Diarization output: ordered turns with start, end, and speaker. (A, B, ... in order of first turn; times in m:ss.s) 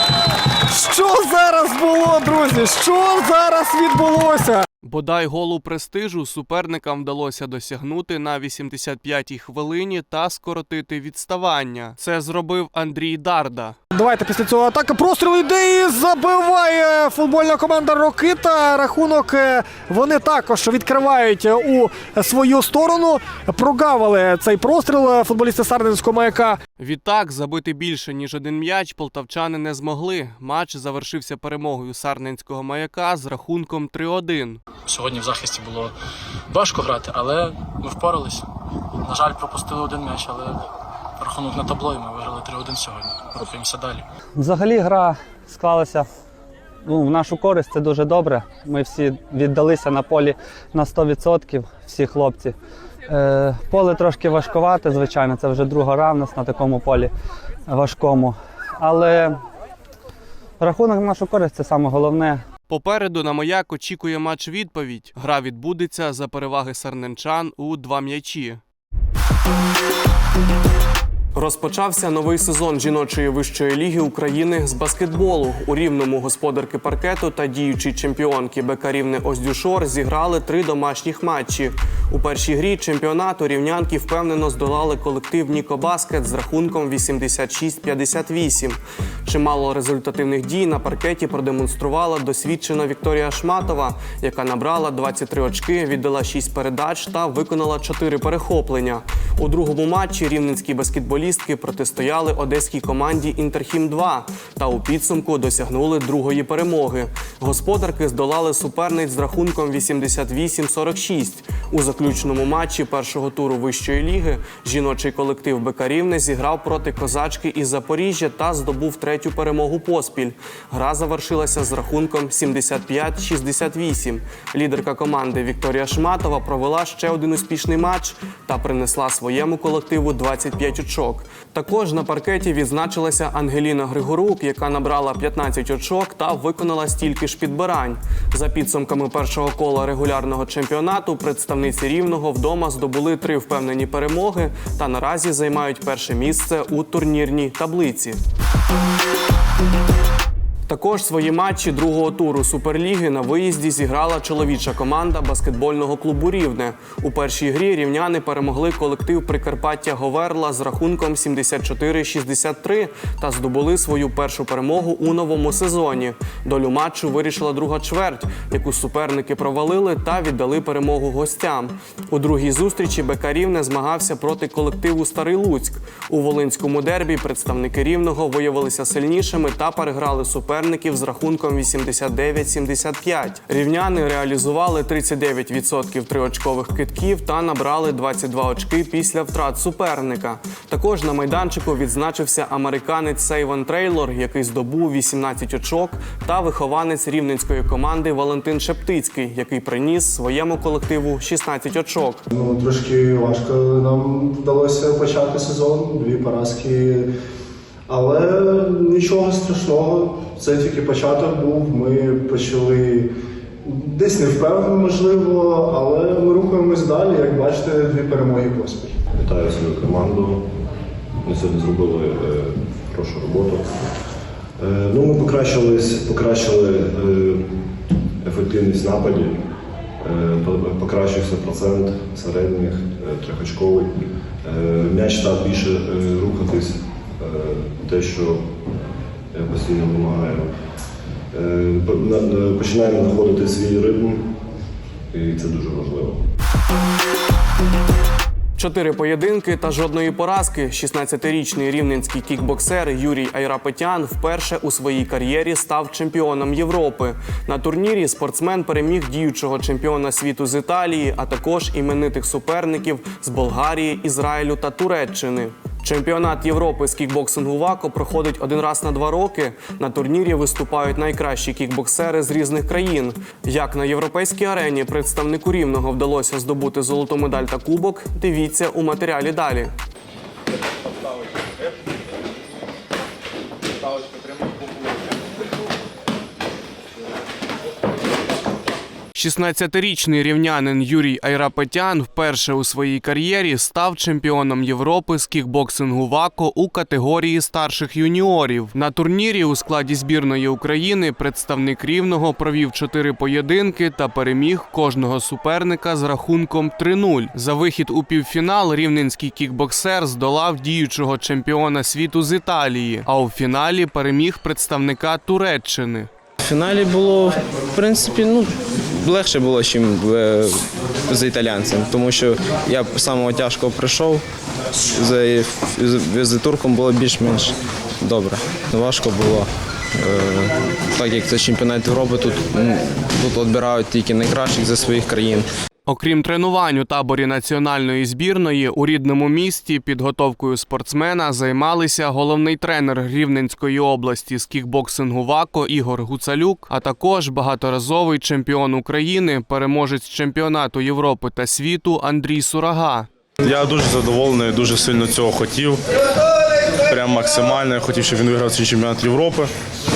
0:00.7-0:04.6 A
0:04.8-0:13.8 B
0:13.9-0:26.6 A
0:26.8-0:34.6 B
0:34.9-0:36.0 C
0:36.5-0:38.5 C
0:39.0-0:40.6 C
0:41.2-0:44.0 C
0:44.4-0:46.1 D
0:46.8-0:52.6 D
0:53.1-0:57.1 D
0:57.7-0:59.4 D
1:00.6-1:02.4 D
1:02.7-1:08.6 B
1:11.4-2:28.2 B
2:30.7-3:22.2 B
3:22.3-3:27.1 E
3:27.9-3:33.1 E
3:33.6-3:39.0 E
3:39.2-3:40.5 F
3:41.2-3:43.8 F
3:44.6-3:47.4 F
3:48.2-3:49.4 F
3:50.0-3:53.9 F
3:54.4-3:58.5 F
3:59.3-4:00.5 F
4:01.3-4:04.3 F
4:05.1-4:06.2 F
4:08.6-4:39.7 B
4:49.2-5:16.1 B
5:16.5-5:20.6 G
5:21.1-5:24.2 G
5:25.0-5:35.5 G
5:35.9-5:53.1 B
5:53.4-5:55.8 H
5:56.9-5:59.5 H